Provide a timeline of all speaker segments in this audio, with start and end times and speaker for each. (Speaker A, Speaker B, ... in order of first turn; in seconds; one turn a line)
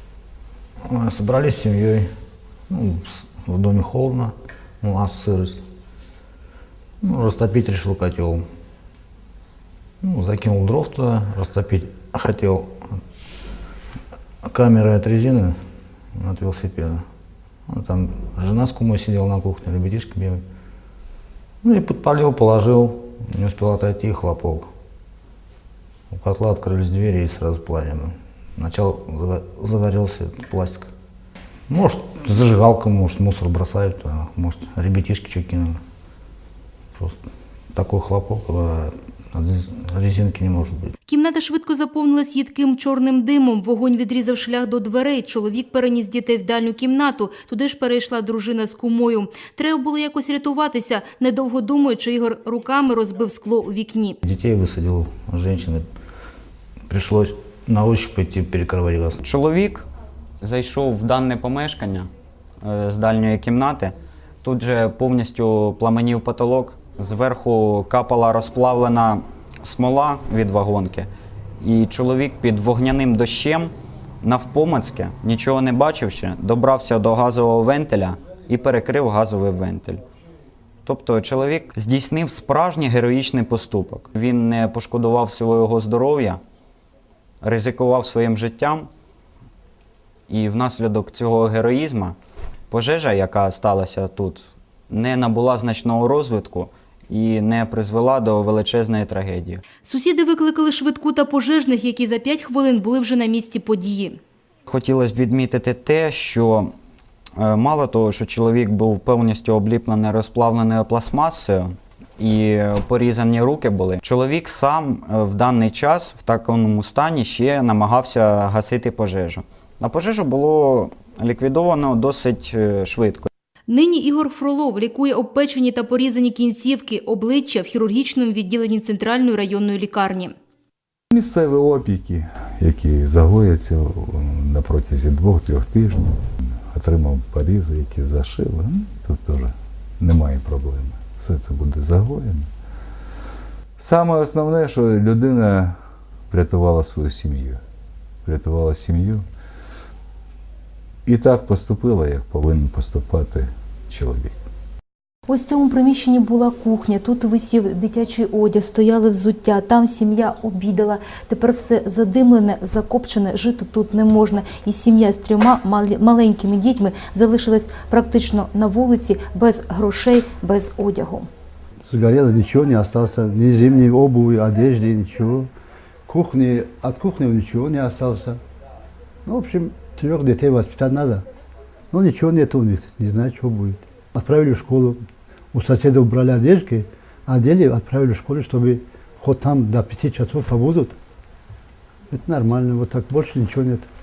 Speaker A: 0.8-2.1
Speaker A: 2.7-5.6
Speaker A: 7.0-8.5
Speaker A: 10.0-12.8
Speaker A: 14.4-15.6
Speaker A: 16.2-17.1
Speaker A: 17.7-20.4
Speaker A: 21.6-24.7
Speaker A: 26.1-30.9
Speaker A: 31.7-35.8
Speaker A: 37.0-37.2
Speaker A: 37.7-40.9
Speaker B: 41.1-54.2
Speaker A: 54.2-55.9
Speaker A: 56.9-59.2
Speaker C: 59.2-59.9
Speaker C: 60.4-62.1
Speaker C: 62.6-71.1
Speaker C: 71.6-80.0
Speaker C: 80.9-86.4
Speaker C: 87.4-88.9
Speaker C: 90.3-92.2
Speaker C: 92.7-99.6
Speaker B: 99.8-104.2
Speaker C: 104.7-106.7
Speaker C: 107.4-123.3
Speaker B: 123.7-130.3
Speaker D: 131.1-136.2
Speaker D: 136.7-142.5
Speaker D: 143.8-145.8
Speaker D: 146.3-147.6
Speaker D: 148.2-149.2
Speaker D: 151.1-154.3
Speaker B: 155.3-171.3
Speaker E: 171.9-175.5
Speaker E: 176.1-178.4
Speaker E: 179.2-181.2
Speaker E: 181.9-185.0
Speaker E: 185.5-191.0
Speaker E: 192.1-193.9